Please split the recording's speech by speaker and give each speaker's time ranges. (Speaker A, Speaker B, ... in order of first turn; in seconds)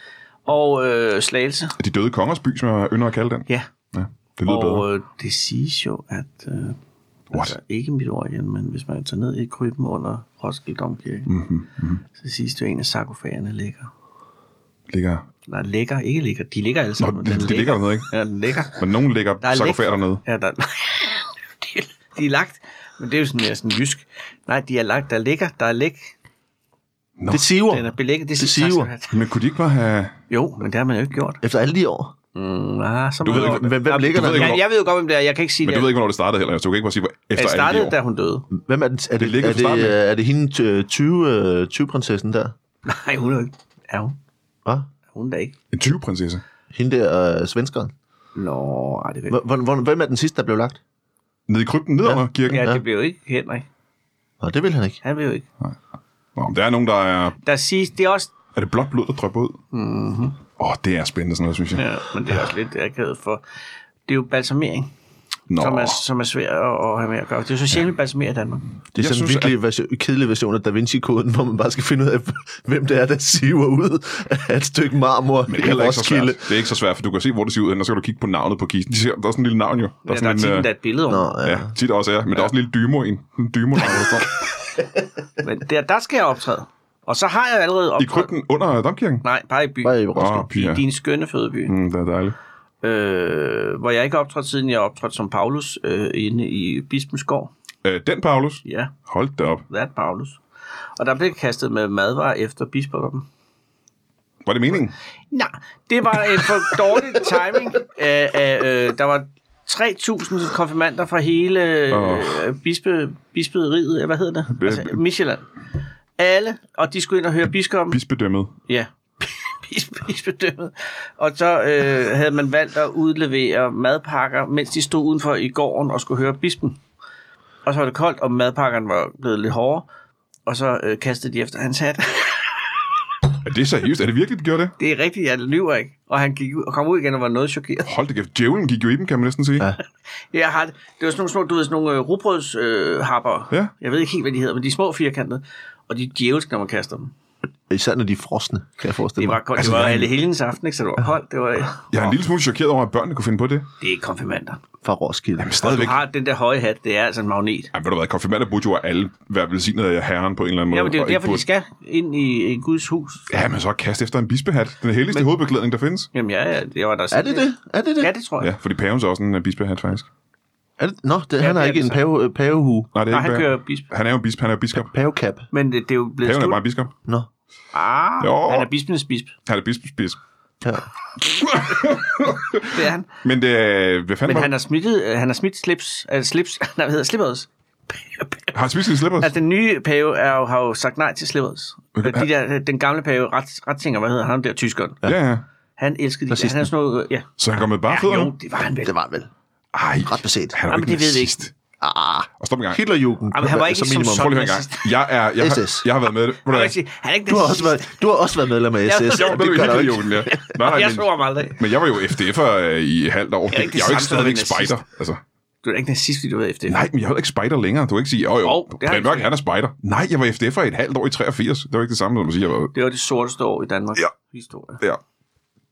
Speaker A: 0.5-1.8, 4.5-6.8, 7.3-11.3, 12.2-13.9, 15.5-18.9, 19.4-26.1, 27.7-29.2, 30.3-31.4, 32.4-35.9, 37.4-38.5, 42.9-44.2, 45.1-45.5, 48.4-49.4, 52.2-53.7, 55.0-55.5, 57.4-58.3, 59.7-60.4, 61.8-63.4, 64.1-64.9, 65.6-68.7, 80.1-81.3, 85.4-88.3, 89.2-91.7, 92.8-97.5, 98.7-98.9, 99.7-100.4, 101.0-103.3, 105.3-115.5, 116.2-118.0, 118.7-126.8, 127.7-129.9, 130.5-132.8, 134.8-137.9, 140.3-147.1, 149.2-152.1, 153.8-154.6, 155.6-157.7, 160.7-163.3, 166.1-168.5, 171.4-172.0, 173.1-173.9, 175.5-176.6, 177.7-179.3, 182.7-183.1, 184.2-188.6, 189.2-195.0, 195.8-197.3, 197.9-198.9, 200.7-201.4, 203.3-205.0, 206.5-208.0, 208.8-211.7, 213.5-214.8, 215.6-216.8, 218.4-219.3, 222.7-224.8
Speaker B: 1.8-4.9, 11.3-12.0, 14.9-15.3, 17.0-18.1, 18.8-20.2, 27.2-27.4, 29.1-30.1, 33.2-34.6, 35.6-38.0, 39.2-40.0, 45.7-46.4, 51.5-52.7, 56.4-57.4, 58.6-59.6, 60.6-61.9, 65.5-66.0, 69.0-69.5, 75.5-80.7, 81.4-84.4, 88.0-89.2, 90.2-90.8, 91.7-92.4, 97.8-99.6, 104.5-105.0, 111.9-112.4, 114.5-115.0, 117.9-118.5, 133.4-134.7, 137.8-139.7, 149.6-150.1, 151.9-153.7, 155.4-156.0, 157.7-161.4, 163.3-166.1, 168.4-170.1, 172.9-174.9, 176.2-176.9, 178.2-178.7, 179.5-180.2, 181.2-184.5, 188.5-189.3, 192.0-192.3, 195.0-195.4, 197.4-198.3, 199.7-201.5, 202.4-202.8, 204.1-206.8, 209.1-215.2, 216.7-222.7
Speaker C: 27.3-28.9, 31.4-32.1, 33.2-34.6, 38.5-42.5, 46.7-47.9, 49.3-50.8, 52.6-52.8, 54.4-55.0, 68.9-76.5, 81.1-81.7, 89.8-90.7, 147.7-150.1, 154.8-155.6, 167.1-168.1, 170.8-172.9, 174.8-175.5, 196.3-196.7, 198.8-199.3, 200.0-200.6, 201.8-204.3, 205.4-205.9, 207.3-210.4